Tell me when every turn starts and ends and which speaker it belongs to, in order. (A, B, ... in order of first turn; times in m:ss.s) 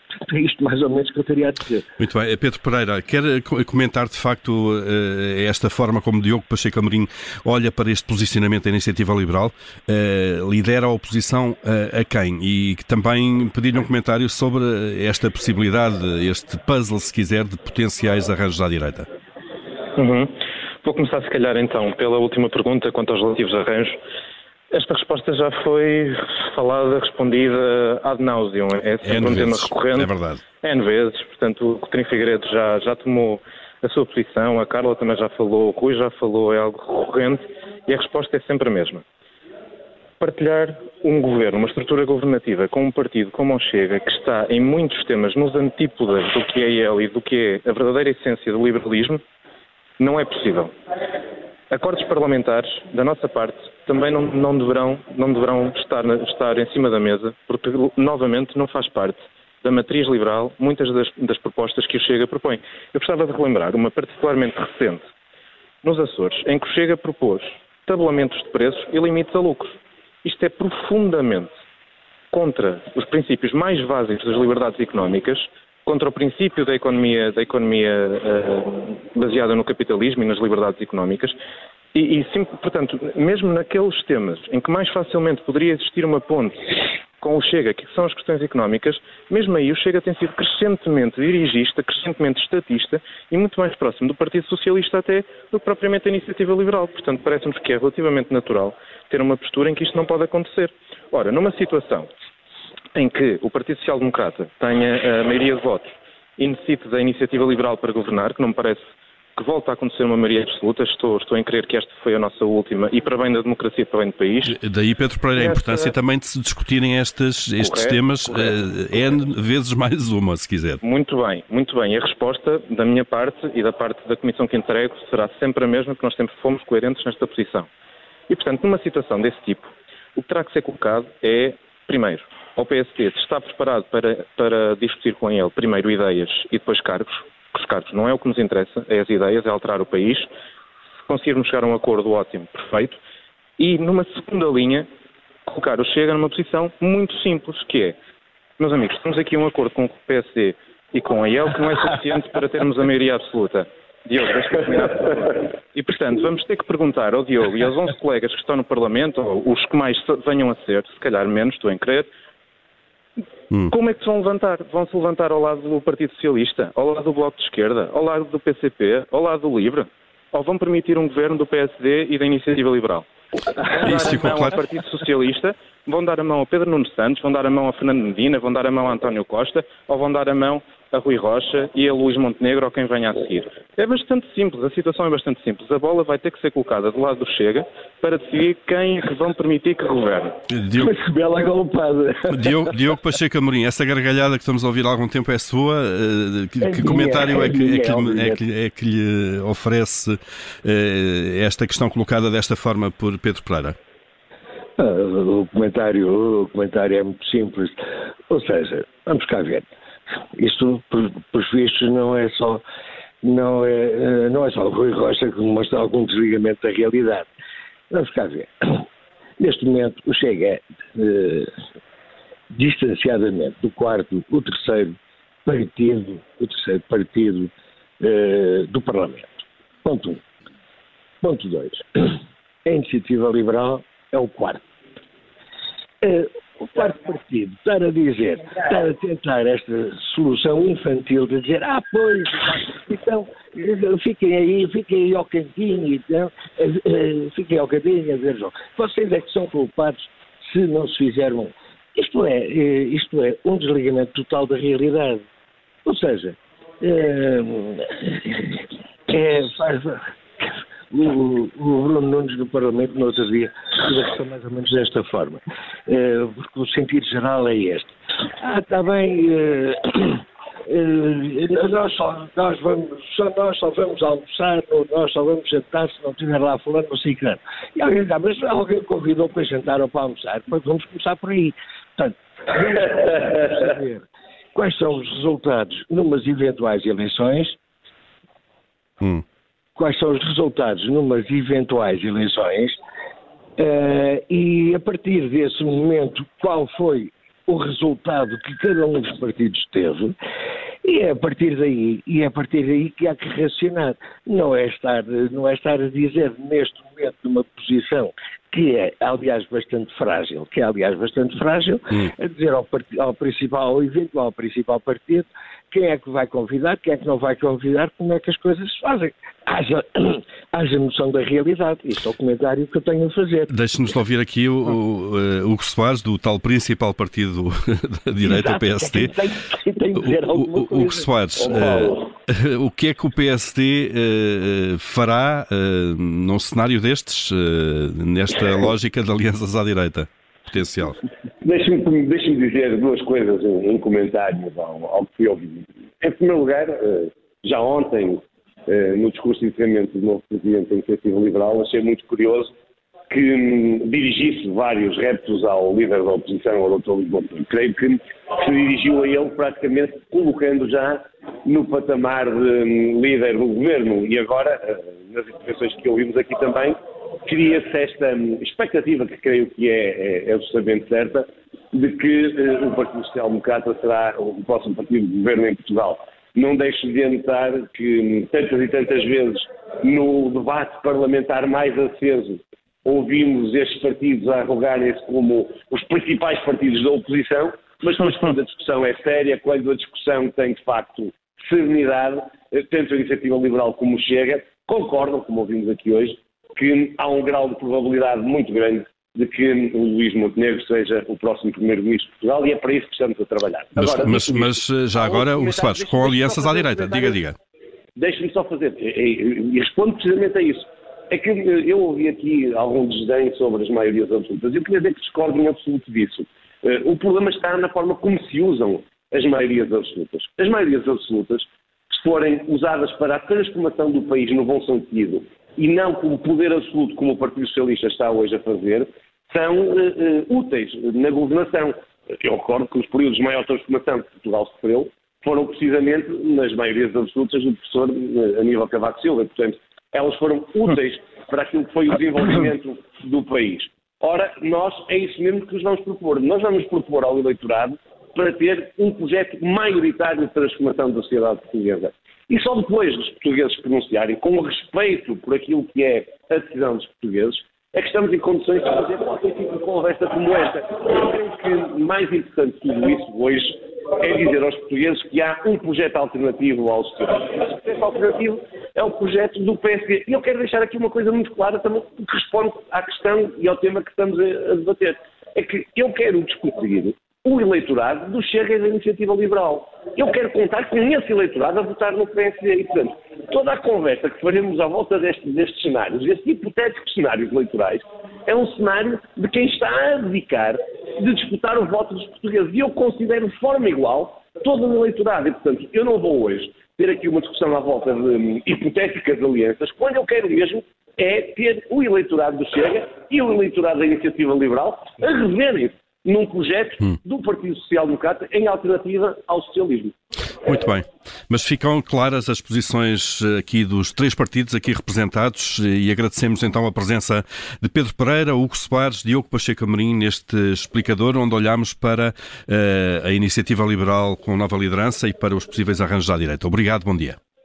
0:00.2-0:01.8 A
0:02.0-0:19.1 B
0:20.0-0:24.0 C
0:24.7-0:30.1 C
0:29.0-0:30.4 B
0:30.6-0:39.0 C
0:40.2-0:49.2 C
0:50.0-0:50.7 C
0:51.7-1:05.0 C
1:05.8-1:11.5 C
1:12.3-1:21.4 C
1:21.9-1:26.6 C
1:27.2-1:42.1 C
1:42.9-1:48.8 C
1:49.3-1:54.5 C
1:54.5-2:00.8 B
1:55.5-1:55.9 D
1:57.6-1:58.4 D
2:00.8-2:07.7 C
2:08.3-2:20.3 C
2:21.0-2:23.0 C
2:23.6-2:24.8 C
2:25.4-2:27.9 C
2:28.6-2:42.1 C
2:43.7-2:53.0 C
2:53.7-3:10.4 C
2:53.8-2:54.5 B
3:10.5-3:10.9 B
3:10.8-3:12.9 A
3:12.3-3:23.8 B
3:16.6-3:18.4 A
3:24.8-3:29.7 A
3:30.4-3:32.6 A
3:33.2-3:37.3 A
3:37.9-3:38.8 A
3:39.4-3:41.5 A
3:42.5-3:44.9 A
3:45.4-3:50.2 A
3:51.2-3:54.7 A
3:56.0-4:15.2 A
4:15.8-4:20.0 A
4:20.9-4:47.6 A
4:49.8-4:52.8 A
4:53.6-5:00.1 A
5:00.8-5:23.5 A
5:23.5-5:29.1 B
5:28.2-5:31.1 A
5:30.0-5:41.0 B
5:31.4-5:32.0 D
5:41.4-5:52.5 D
5:53.1-6:47.2 D
6:43.8-6:47.4 B
6:48.0-8:29.9 D
8:30.4-8:47.2 B